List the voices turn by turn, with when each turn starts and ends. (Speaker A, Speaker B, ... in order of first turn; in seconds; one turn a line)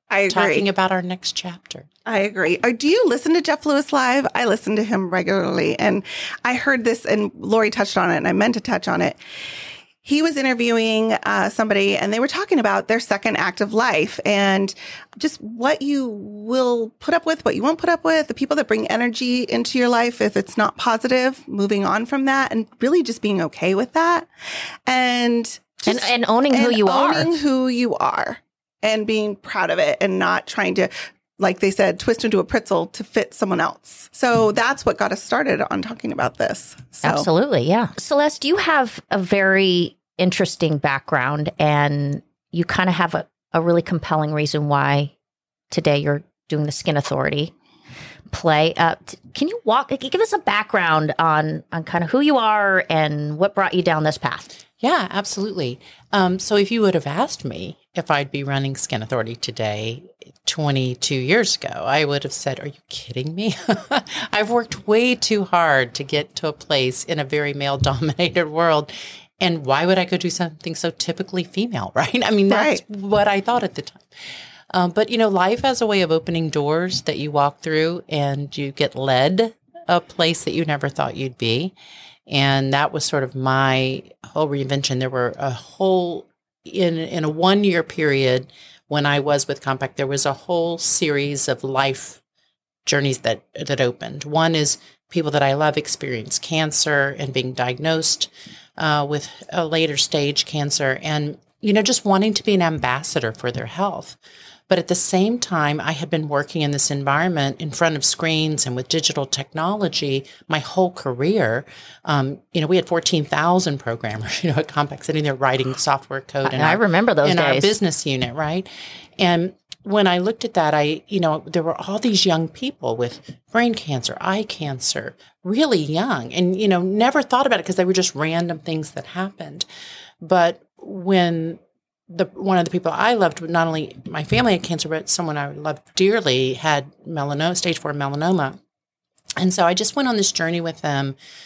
Speaker A: 0.1-0.6
Speaker B: 0.3-1.9
Speaker A: 2.0-9.2
Speaker A: 10.0-24.3
Speaker A: 24.9-37.2
Speaker C: 25.9-27.3
Speaker C: 37.0-45.1
Speaker C: 45.7-47.5
Speaker C: 48.3-54.5
Speaker B: 54.8-74.0
Speaker A: 72.5-72.8
Speaker B: 74.7-81.7
Speaker B: 82.3-92.2
Speaker B: 92.8-104.2
Speaker B: 104.7-129.7
Speaker C: 116.4-117.7
Speaker B: 130.2-138.6
Speaker B: 139.4-141.2